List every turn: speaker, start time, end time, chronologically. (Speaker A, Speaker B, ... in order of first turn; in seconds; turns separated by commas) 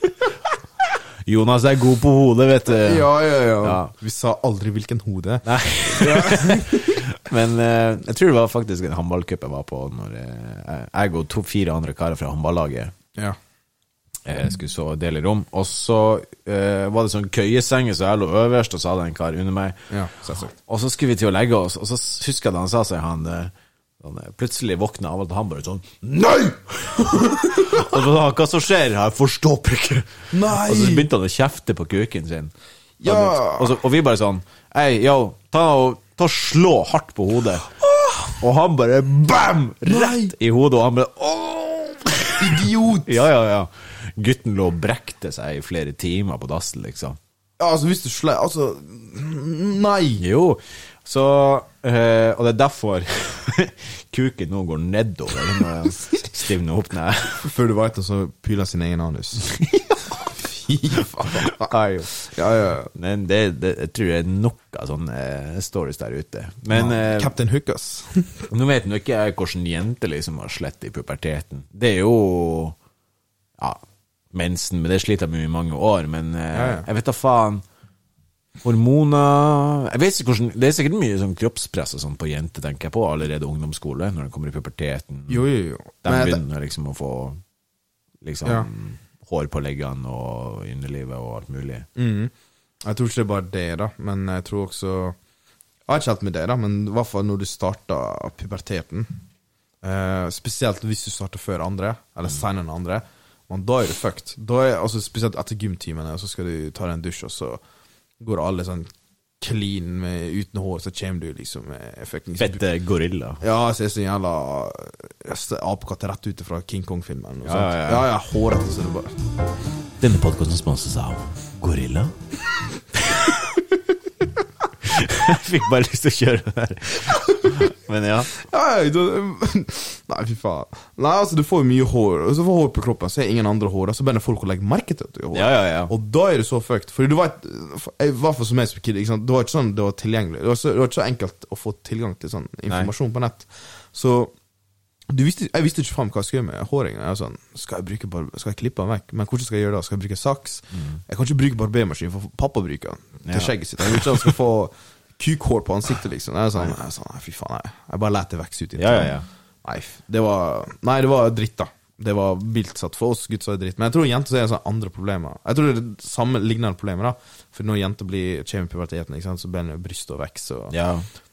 Speaker A: 1.2-3.9, Speaker B: 2.7-7.0, Speaker A: 5.4-12.9, Speaker A: 14.2-19.8, Speaker B: 19.9-20.5, Speaker A: 20.4-32.5, Speaker B: 27.1-27.9, Speaker B: 30.3-31.1, Speaker B: 33.0-33.8, Speaker A: 33.0-37.7, Speaker B: 37.8-38.4, Speaker A: 38.4-47.2, Speaker B: 39.8-40.3, Speaker B: 42.4-43.2, Speaker B: 47.6-50.2, Speaker A: 50.2-57.5, Speaker B: 57.4-59.5, Speaker A: 59.5-60.0, Speaker B: 60.3-62.9, Speaker A: 61.2-62.1, Speaker A: 62.9-67.3, Speaker B: 66.7-68.5, Speaker A: 68.5-72.8, Speaker A: 74.3-77.6, Speaker B: 76.5-76.9, Speaker A: 78.6-85.4, Speaker B: 85.3-86.4, Speaker A: 86.0-87.4, Speaker A: 88.2-91.9, Speaker B: 92.0-95.2, Speaker B: 95.8-99.2, Speaker B: 99.8-107.6, Speaker B: 108.2-112.6, Speaker A: 112.4-113.4, Speaker B: 113.4-119.1, Speaker A: 117.4-118.1, Speaker A: 120.0-122.1, Speaker A: 124.8-128.3, Speaker B: 127.1-127.5, Speaker B: 128.3-144.3, Speaker A: 135.3-135.9, Speaker B: 145.1-170.7, Speaker A: 150.7-151.0, Speaker A: 153.2-154.3, Speaker A: 158.8-159.2, Speaker A: 170.7-171.1